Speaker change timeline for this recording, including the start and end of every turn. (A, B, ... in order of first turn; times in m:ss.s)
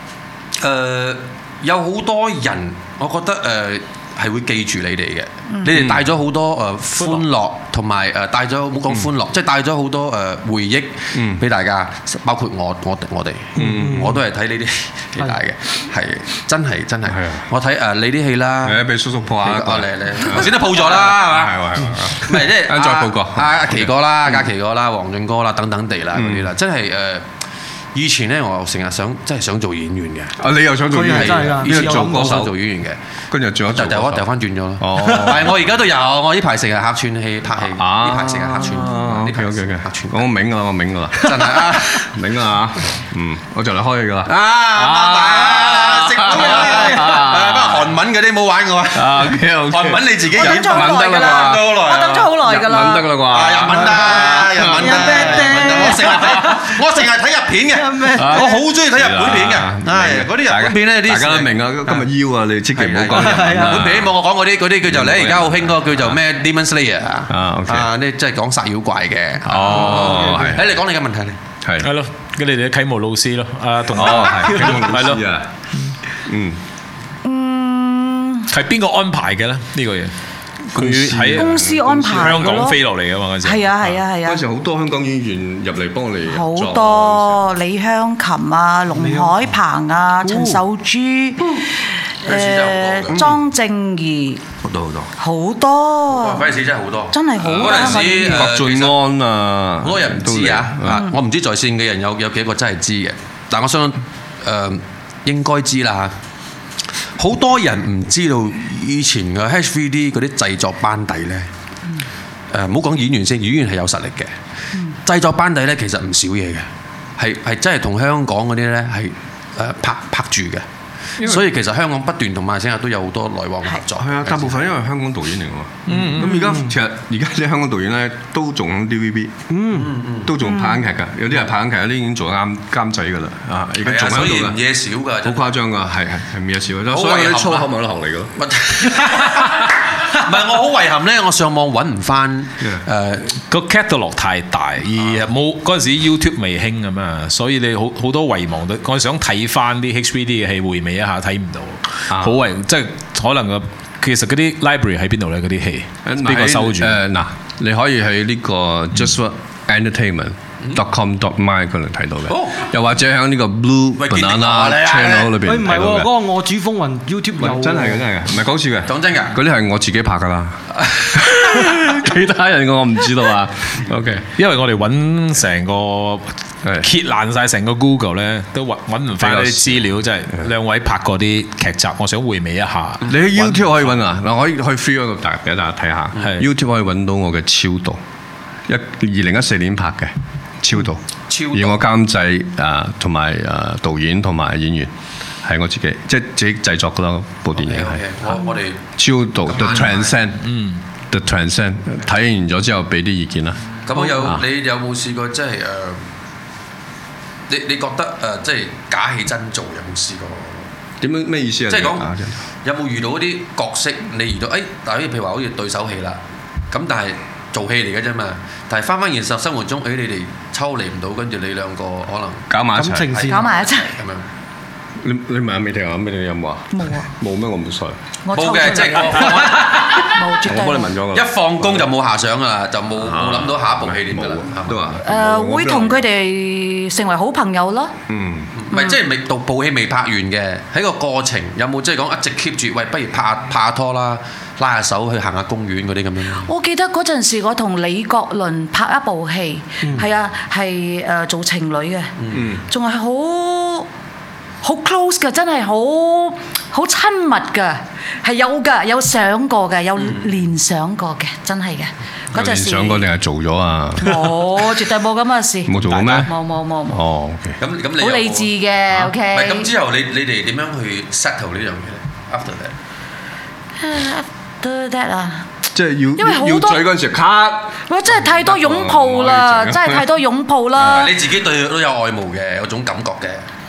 0:00.6-0:18.8 A
0:05.7-0:06.0 B
0:11.1-0:11.4 B
0:13.6-0:14.2 B
0:13.6-0:14.2 C
0:17.0-0:17.5 B
0:18.6-0:24.5 B
0:19.4-0:21.6 A
0:22.1-0:27.3 A
0:26.1-0:26.5 B
0:27.9-0:30.4 A
0:30.4-0:32.6 B
0:30.9-0:32.4 C
0:31.0-0:33.0 A
0:33.3-0:34.3 B
0:33.7-0:40.3 A
0:34.8-0:35.7 B
0:37.6-0:47.9 B
0:41.2-0:42.1 A
0:44.3-0:52.1 A
0:48.9-0:55.6 B
0:50.3-0:53.2 D
0:53.2-1:02.0 A
0:53.8-0:56.6 C
0:56.1-0:56.6 B
0:57.7-0:58.6 C
0:58.1-1:04.1 B
1:02.7-1:11.4 A
1:03.1-1:03.9 C
1:04.8-1:06.2 B
1:07.3-1:07.9 B
1:09.4-1:10.8 B
1:09.5-1:10.0 E
1:10.0-1:10.5 C
1:11.6-1:11.9 B
1:11.8-1:15.2 E
1:13.9-1:15.5 B
1:16.2-1:16.6 B
1:17.2-1:18.5 D
1:18.5-1:20.1 E
1:20.7-1:23.9 E
1:20.7-1:22.4 B
1:21.3-1:22.8 D
1:23.4-1:24.4 D
1:24.2-1:27.4 B
1:26.3-1:31.6 D
1:28.9-1:29.5 C
1:30.2-1:30.6 C
1:32.2-1:34.4 D
1:32.2-1:33.3 A
1:34.6-1:35.1 B
1:35.2-1:36.5 D
1:36.1-1:38.9 A
1:37.1-1:38.4 D
1:37.4-1:41.1 B
1:39.8-1:46.1 A
1:47.2-1:51.5 A
1:52.5-1:54.3 A
1:55.0-1:56.7 A
1:57.2-2:00.6 A
2:01.2-2:04.7 A
2:04.0-2:09.3 B
2:05.9-2:06.5 E
2:06.2-2:06.7 C
2:09.5-2:09.9 C
2:09.7-2:10.3 A
2:10.2-2:14.6 B
2:10.4-2:10.8 D
2:13.8-2:15.5 A
2:15.2-2:18.3 B
2:16.9-2:17.7 A
2:18.4-2:23.3 A
2:23.4-2:37.0 E
2:32.1-2:32.4 B
2:36.0-2:46.1 B
2:42.3-2:42.6 A
2:44.0-2:45.4 A
2:45.4-2:48.0 C
2:47.4-2:54.3 B
2:48.8-2:49.3 A
2:54.3-3:03.9 E
2:56.6-2:56.9 B
2:59.2-3:00.5 B
3:03.0-3:08.0 B
3:08.7-3:18.4 B
3:11.3-3:11.8 A
3:17.5-3:18.9 A
3:19.0-3:20.4 B
3:19.4-3:20.2 A
3:20.4-3:20.8 E
3:21.1-3:24.4 B
3:23.8-3:26.0 A
3:27.5-3:30.6 A
3:31.0-3:32.4 B
3:31.7-3:32.1 A
3:32.6-3:44.3 A
3:42.5-3:43.2 B
3:42.8-3:43.5 C
3:43.3-3:43.9 D
3:45.0-3:48.0 B
3:46.7-3:47.1 D
3:48.2-3:50.9 D
3:48.3-3:50.1 A
3:50.3-3:51.9 B
3:51.1-3:55.0 A
3:53.0-3:56.0 B
3:55.0-3:57.9 D
3:58.1-3:58.5 B
3:58.6-4:06.5 A
3:58.7-3:59.0 D
4:06.4-4:12.1 D
4:12.2-4:12.5 A
4:12.3-4:12.6 B
4:12.7-4:13.9 D
4:14.6-4:23.1 D
4:20.0-4:20.2 A
4:22.3-4:24.3 B
4:24.0-4:27.0 D
4:25.6-4:26.3 B
4:26.9-4:27.6 B
4:27.6-4:28.5 A
4:28.0-4:29.7 D
4:29.2-4:32.7 A
4:33.8-4:35.5 D
4:35.7-4:40.1 B
4:36.2-4:36.8 D
4:37.9-4:41.1 D
4:40.8-4:43.4 A